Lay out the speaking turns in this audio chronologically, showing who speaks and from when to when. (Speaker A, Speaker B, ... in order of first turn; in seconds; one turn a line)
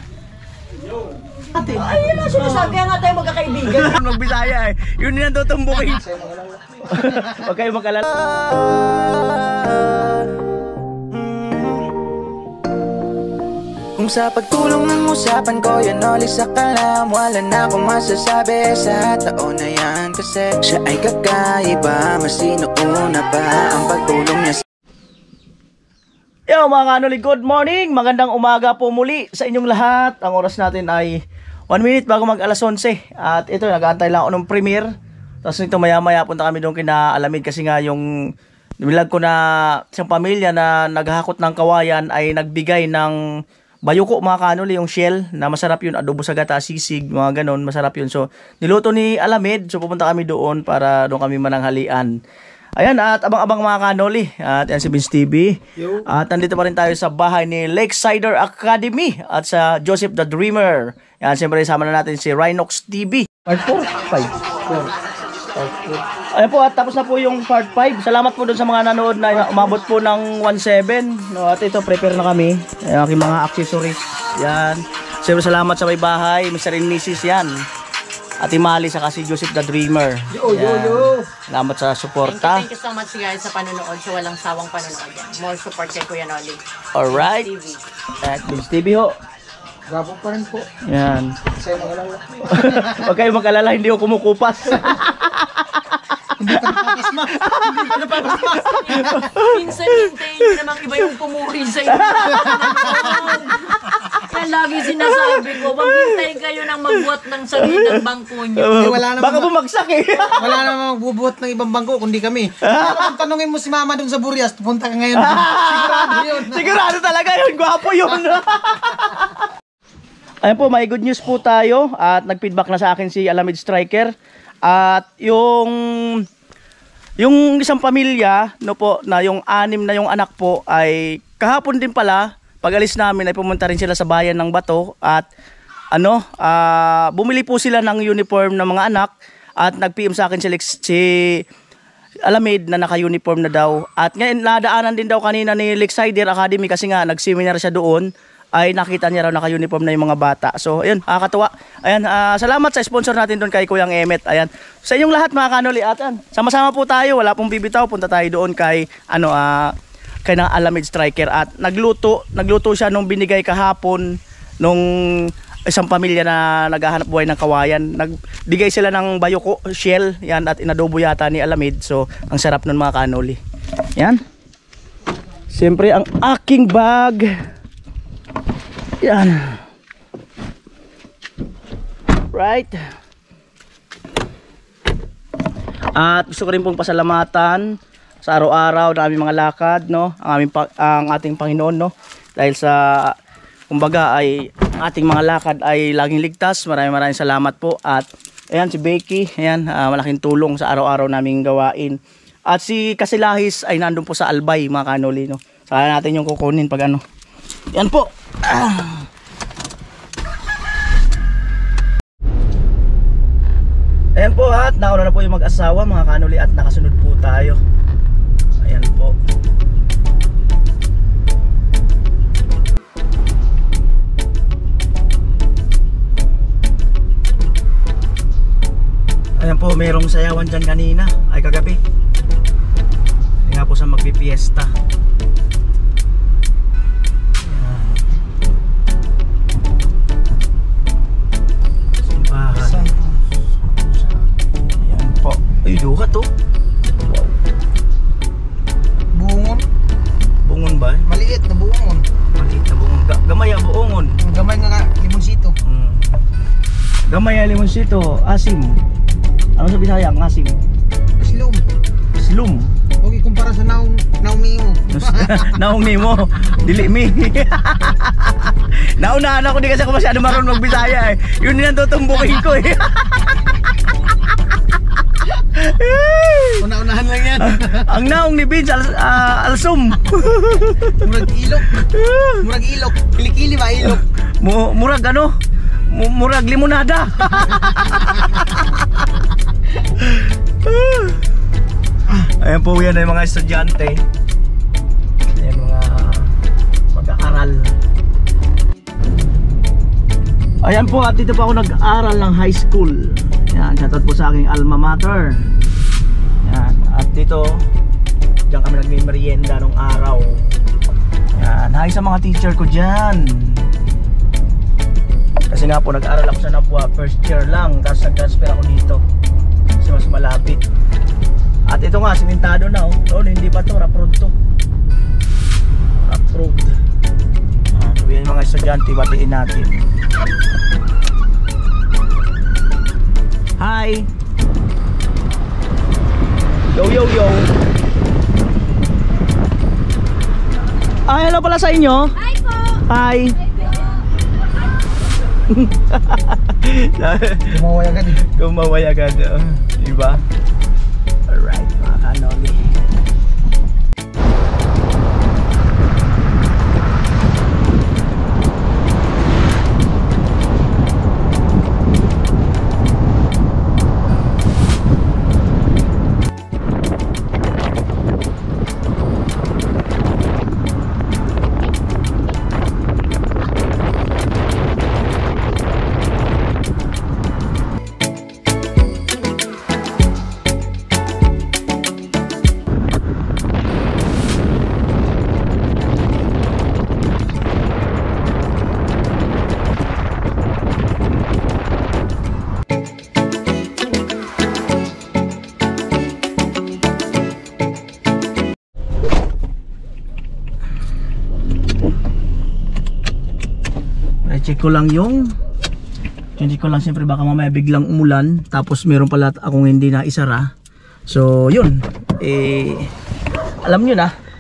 Speaker A: 1.5-3.9
Speaker B: 1.6-2.8
Speaker B: 3.6-6.0
Speaker C: 5.8-7.5
Speaker B: 6.9-10.3
Speaker D: 14.1-23.1
Speaker D: 23.7-24.6
Speaker B: 26.5-31.2
Speaker B: 31.7-34.9
Speaker B: 35.4-38.0
Speaker B: 38.8-43.1
Speaker B: 43.8-52.1
Speaker B: 52.8-64.3
Speaker C: 55.8-56.0
Speaker C: 65.5-66.0
Speaker B: 66.3-77.5
Speaker B: 78.4-82.6
Speaker C: 80.3-81.2
Speaker A: 82.2-87.8
Speaker B: 86.9-87.5
Speaker B: 88.2-89.1
Speaker C: 89.9-90.7
Speaker B: 90.9-91.4
Speaker C: 91.5-93.1
Speaker B: 92.5-101.1
Speaker C: 96.4-99.3
Speaker A: 98.4-108.9
Speaker B: 101.9-104.2
Speaker C: 102.3-103.1
Speaker B: 104.9-106.3
Speaker B: 107.5-108.0
Speaker B: 108.5-110.7
Speaker C: 108.7-109.5
Speaker C: 110.3-116.8
Speaker B: 112.6-113.1
Speaker B: 115.1-119.4
Speaker B: 120.4-124.1
Speaker B: 124.6-126.2
Speaker B: 127.2-135.3
Speaker B: 135.9-141.4
Speaker B: 142.2-159.7
Speaker B: 160.2-164.1
Speaker B: 164.6-173.4
Speaker B: 175.5-177.3
Speaker B: 179.0-179.6
Speaker B: 182.3-182.8
Speaker B: 185.9-187.6
Speaker B: 188.2-193.1
Speaker B: 193.7-207.0
Speaker B: 207.7-209.1
Speaker B: 214.2-217.6
Speaker B: 218.6-219.2
Speaker B: 229.4-231.8
Speaker B: 233.4-234.7
Speaker B: 237.4-238.1
Speaker B: 242.0-242.9
Speaker C: 242.6-244.2
Speaker B: 244.7-246.3
Speaker B: 247.0-247.4
Speaker C: 249.1-249.6
Speaker B: 250.4-251.1
Speaker C: 251.1-252.0
Speaker B: 252.3-254.2
Speaker C: 254.2-255.6
Speaker B: 255.6-256.2
Speaker B: 257.1-258.8
Speaker B: 259.6-260.6
Speaker C: 261.2-261.6
Speaker B: 262.1-262.7
Speaker C: 263.0-265.4
Speaker B: 264.9-273.4
Speaker B: 275.3-276.6
Speaker C: 276.6-278.0
Speaker B: 277.4-281.0
Speaker C: 281.0-284.0
Speaker B: 281.8-282.4
Speaker B: 283.9-285.3
Speaker B: 285.9-289.2
Speaker B: 289.7-291.2
Speaker B: 292.1-294.0
Speaker B: 295.3-296.3
Speaker B: 296.9-297.7
Speaker B: 300.6-305.5
Speaker B: 306.4-307.6
Speaker B: 308.5-310.6
Speaker B: 311.3-313.6
Speaker B: 315.5-319.0
Speaker B: 319.8-320.6
Speaker B: 321.7-324.3
Speaker B: 326.0-326.7
Speaker B: 327.7-329.7
Speaker B: 333.6-334.1
Speaker B: 336.7-337.5
Speaker B: 341.1-342.1
Speaker B: 342.9-343.4
Speaker B: 345.5-347.6
Speaker C: 347.5-348.2
Speaker B: 348.2-350.2
Speaker B: 351.3-352.7
Speaker B: 404.2-405.3
Speaker B: 406.4-410.5
Speaker B: 411.1-412.9
Speaker B: 413.6-414.1